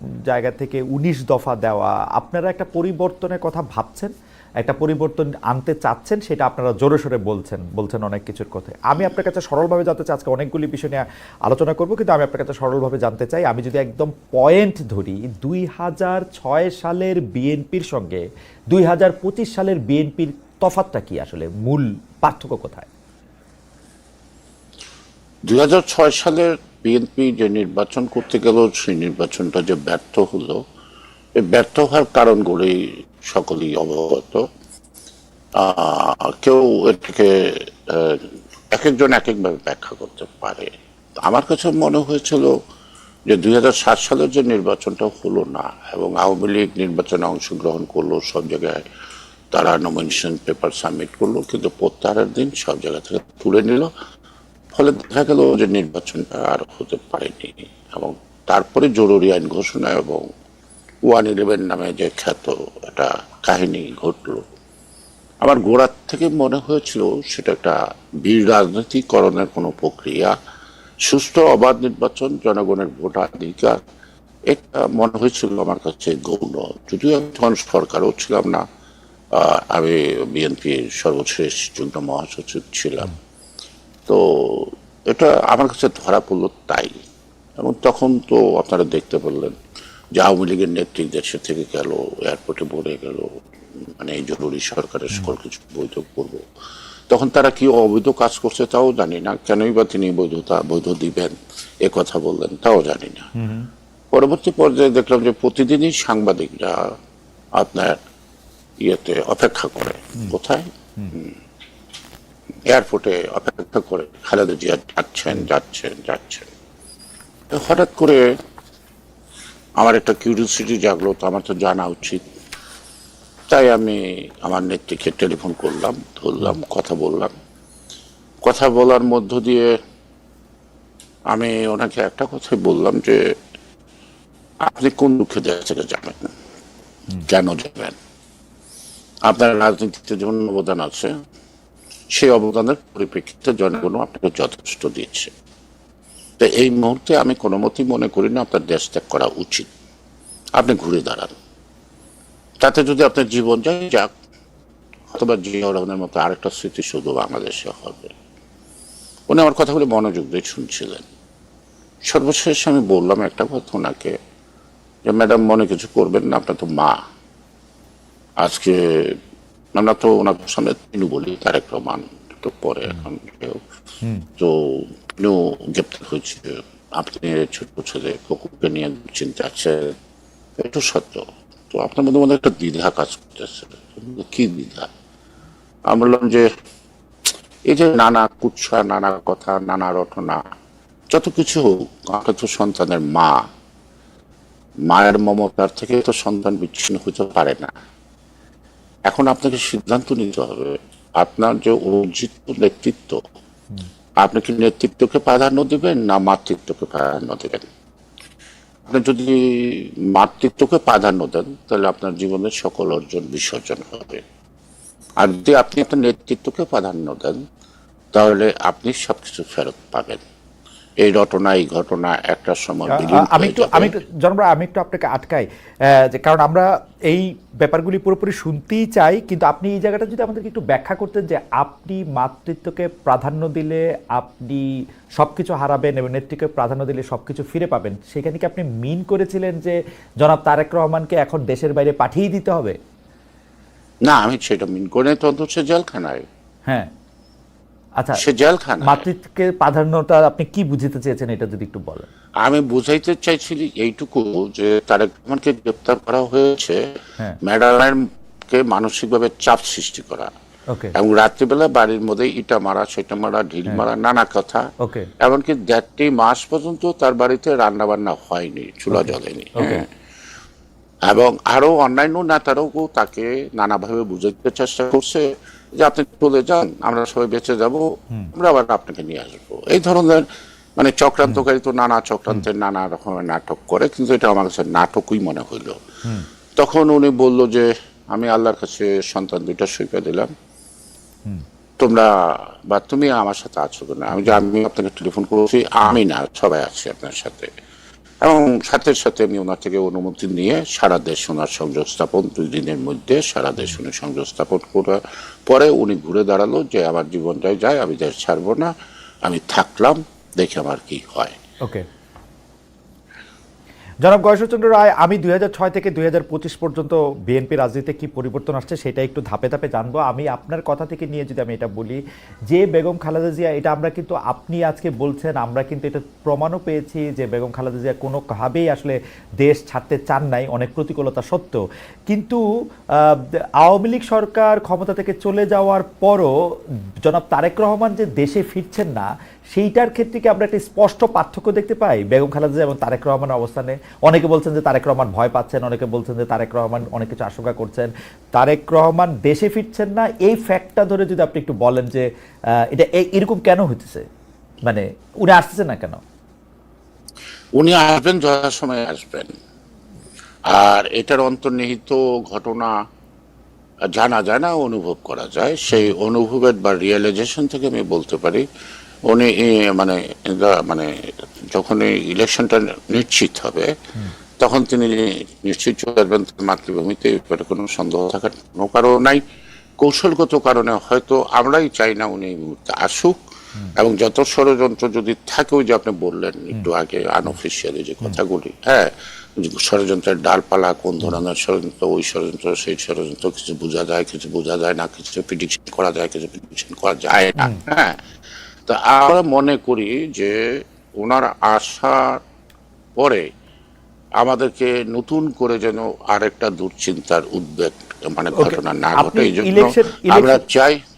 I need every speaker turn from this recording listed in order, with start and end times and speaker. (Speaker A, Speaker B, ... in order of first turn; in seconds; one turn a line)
Speaker A: 0.3-22.9
Speaker B: 25.5-30.6
Speaker B: 31.4-34.4
Speaker B: 35.6-40.7
Speaker B: 41.2-42.5
Speaker B: 43.3-48.9
Speaker B: 49.5-53.9
Speaker B: 54.7-60.3
Speaker B: 61.1-64.4
Speaker B: 65.4-70.3
Speaker B: 71.0-73.8
Speaker B: 74.5-78.6
Speaker B: 79.3-83.1
Speaker B: 84.1-87.0
Speaker B: 87.6-89.6
Speaker B: 90.2-96.4
Speaker B: 97.1-103.3
Speaker A: 103.3-103.7
Speaker B: 104.1-106.8
Speaker B: 107.6-108.0
Speaker B: 108.8-111.3
Speaker B: 112.7-116.5
Speaker B: 117.5-118.2
Speaker B: 119.8-122.2
Speaker B: 123.5-127.3
Speaker B: 128.4-129.7
Speaker B: 131.3-133.2
Speaker B: 134.6-136.3
Speaker B: 137.3-138.0
Speaker B: 139.3-141.2
Speaker B: 142.1-145.3
Speaker B: 146.4-149.7
Speaker B: 150.6-151.3
Speaker B: 152.6-154.1
Speaker B: 155.1-158.1
Speaker B: 159.3-161.1
Speaker B: 162.1-164.2
Speaker B: 165.1-166.9
Speaker B: 168.4-169.2
Speaker B: 169.8-173.6
Speaker B: 174.4-179.9
Speaker B: 180.6-184.9
Speaker B: 185.9-186.5
Speaker B: 187.7-190.4
Speaker B: 191.1-193.4
Speaker B: 194.9-197.7
Speaker B: 199.1-203.2
Speaker B: 204.2-207.7
Speaker B: 208.9-214.2
Speaker B: 215.2-217.4
Speaker B: 218.1-220.2
Speaker B: 221.0-223.9
Speaker A: 222.9-242.8
Speaker B: 244.1-246.2
Speaker B: 248.2-249.1
Speaker A: 248.8-252.1
Speaker B: 252.4-256.8
Speaker B: 257.4-260.3
Speaker B: 260.9-264.6
Speaker A: 264.8-265.1
Speaker B: 265.2-269.8
Speaker A: 268.9-269.9
Speaker B: 271.1-275.3
Speaker B: 275.8-280.2
Speaker B: 280.8-285.8
Speaker B: 286.6-290.3
Speaker B: 291.8-297.5
Speaker B: 298.2-308.7
Speaker B: 309.2-311.4
Speaker A: 314.0-332.4
Speaker A: 333.0-336.3
Speaker A: 337.0-352.1
Speaker A: 352.6-354.1
Speaker A: 354.6-356.0
Speaker B: 357.6-359.3
Speaker B: 360.5-362.7
Speaker B: 363.9-368.5
Speaker B: 369.1-370.9
Speaker B: 371.5-373.7
Speaker B: 374.4-379.2
Speaker B: 379.8-383.2
Speaker B: 383.8-398.0
Speaker B: 398.7-402.2
Speaker B: 404.2-410.8
Speaker A: 408.4-410.4